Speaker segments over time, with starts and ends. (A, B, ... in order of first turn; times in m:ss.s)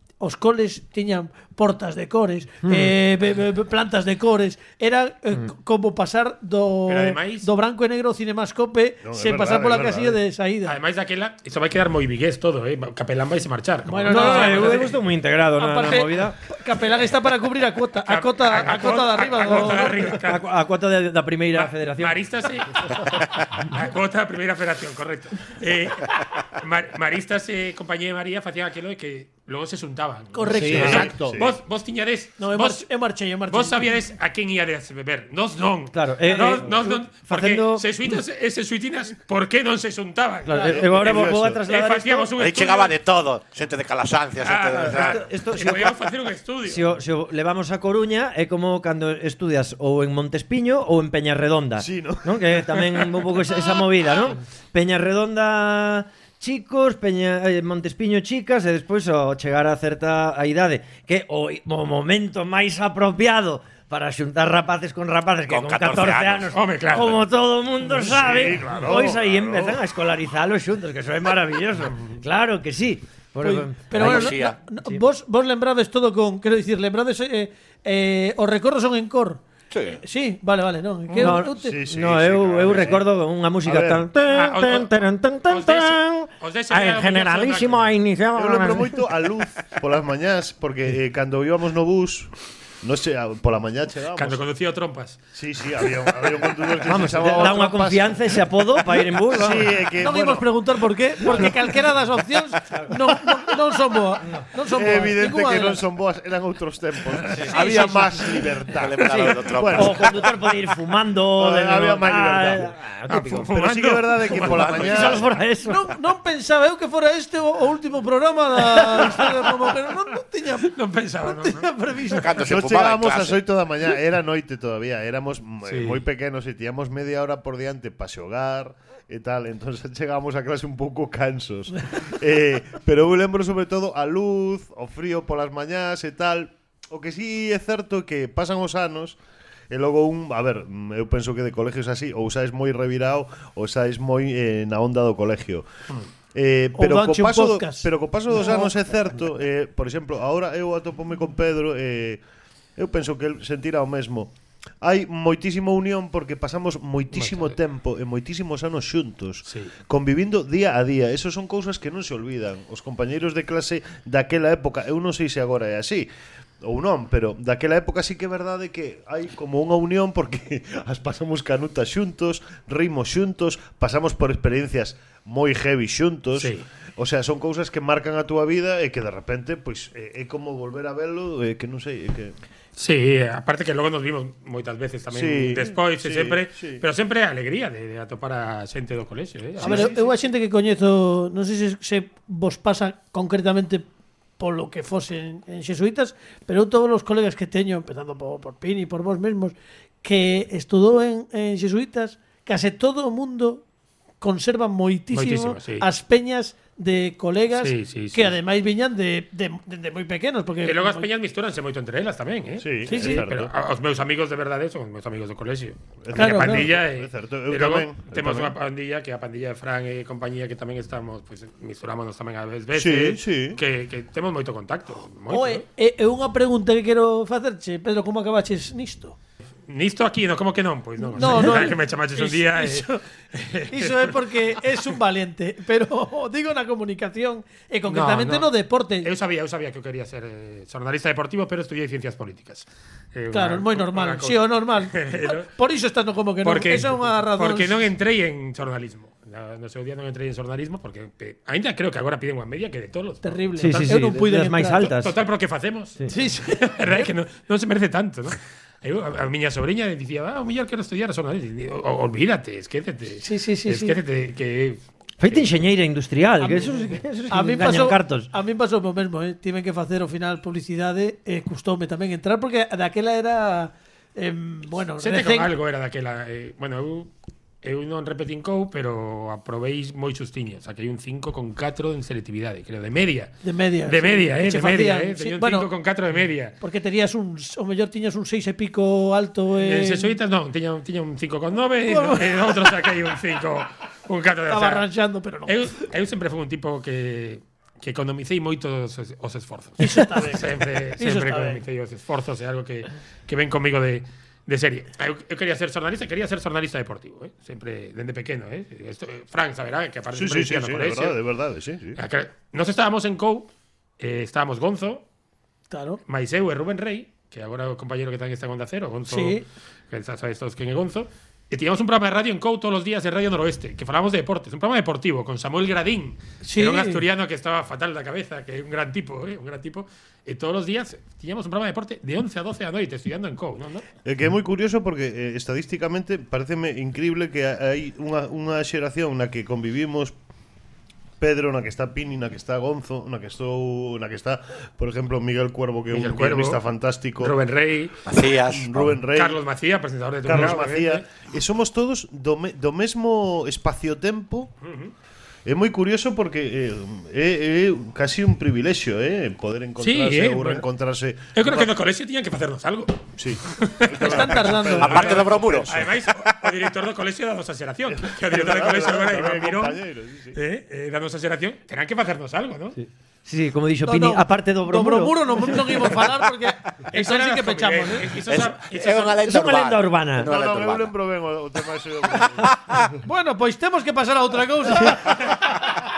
0:00.2-0:10.7 A
0:02.6-0:02.9 B
0:06.9-0:07.5 C
0:09.0-0:10.2 D
0:10.6-0:15.0 C
0:13.9-0:14.9 A
0:14.0-0:16.4 B
0:15.6-0:20.0 A
0:18.1-0:20.4 C
0:19.5-0:22.2 B
0:21.5-0:32.9 C
0:30.3-0:31.1 A
0:30.5-0:31.1 B
0:30.6-0:31.5 D
0:32.4-0:33.8 A
0:33.5-0:42.9 C
0:35.9-0:38.2 B
0:40.5-0:42.3 B
0:40.7-0:41.6 D
0:42.4-0:45.3 E
0:44.4-0:46.9 C
0:44.8-0:46.0 B
0:46.6-1:15.0 B
0:51.8-0:53.0 D
1:05.5-1:07.0 E
1:06.5-1:07.2 C
1:07.9-1:09.8 D
1:13.4-1:19.4 A
1:13.9-1:14.6 E
1:19.7-1:20.0 E
1:20.0-1:21.7 A
1:21.2-1:29.1 B
1:21.4-1:23.1 D
1:23.6-1:24.1 D
1:24.3-1:27.9 C
1:28.3-1:34.4 D
1:34.1-1:35.2 C
1:35.3-1:38.2 D
1:36.8-1:39.8 B
1:39.3-1:40.5 D
1:40.0-1:45.8 A
1:41.3-1:41.6 D
1:44.2-1:44.5 B
1:44.7-1:50.3 D
1:47.3-1:48.0 B
1:48.8-1:50.0 E
1:49.0-1:53.5 B
1:51.4-1:52.7 D
1:53.1-1:55.1 C
1:53.5-1:55.3 D
1:54.3-1:55.9 B
1:54.5-1:55.1 E
1:55.6-2:02.3 A
2:00.6-2:01.7 C
2:02.1-2:03.4 E
2:02.4-2:19.2 D
2:05.6-2:06.0 C
2:19.7-2:25.6 D
2:26.3-2:32.2 D
2:26.7-2:28.7 A
2:32.8-2:46.1 D
2:37.1-2:37.6 C
2:39.4-2:39.7 C
2:46.6-3:02.4 D
2:56.4-2:56.6 C
3:02.8-3:09.9 C
3:05.1-3:06.8 D
3:09.6-3:10.1 D
3:09.6-3:13.8 A
3:14.4-3:23.6 A
3:24.2-3:31.1 A
3:25.1-3:25.8 C
3:27.5-3:28.3 C
3:30.6-3:45.6 C
3:32.6-3:33.5 D
3:32.9-3:33.2 A
3:36.0-3:38.5 D
3:36.1-3:36.7 A
3:42.7-3:43.6 D
3:45.3-3:49.1 A
3:49.7-3:54.3 C
3:51.0-3:53.0 A
3:53.7-3:59.1 A
3:57.9-3:58.5 C
3:59.0-4:05.5 C
4:03.3-4:07.8 A
4:06.4-4:13.8 C
4:13.2-4:14.9 A
4:13.6-4:15.1 B
4:14.8-4:25.5 C
4:16.1-4:17.1 A
4:23.2-4:24.0 A
4:25.2-4:28.3 B
4:26.4-4:26.7 A
4:27.3-4:35.5 A
4:35.0-4:37.1 C
4:37.6-4:43.3 C
4:43.4-4:45.7 A
4:43.8-4:46.5 C
4:46.6-4:50.2 A
4:49.6-4:54.8 C
4:51.9-4:52.6 A
4:54.5-4:55.8 A
4:55.4-5:11.2 C
4:59.8-5:01.6 A
5:10.1-5:12.0 D
5:12.0-5:13.5 C
5:14.0-5:15.0 C
5:15.7-5:16.0 A
5:16.1-5:33.8 C
5:19.1-5:19.4 A
5:26.4-5:27.0 A
5:34.0-5:40.1 D
5:41.2-5:47.3 D
5:45.9-5:46.6 C
5:47.2-5:48.0 C
5:48.0-5:49.0 E
5:48.5-5:49.4 D
5:49.1-5:51.0 C
5:50.2-5:54.5 D
5:54.6-5:54.9 C
5:55.4-6:01.7 D
5:59.8-6:00.6 C
6:01.3-6:09.8 C
6:03.2-6:05.8 D
6:04.0-6:05.0 A
6:04.7-6:05.9 E
6:07.9-6:10.4 D
6:10.3-6:12.8 C
6:12.8-6:15.8 B
6:13.8-6:18.1 A
6:16.9-6:19.2 C
6:18.3-6:20.9 E
6:19.2-6:20.3 B
6:20.2-6:22.5 D
6:22.2-6:22.6 E
6:23.0-6:25.6 A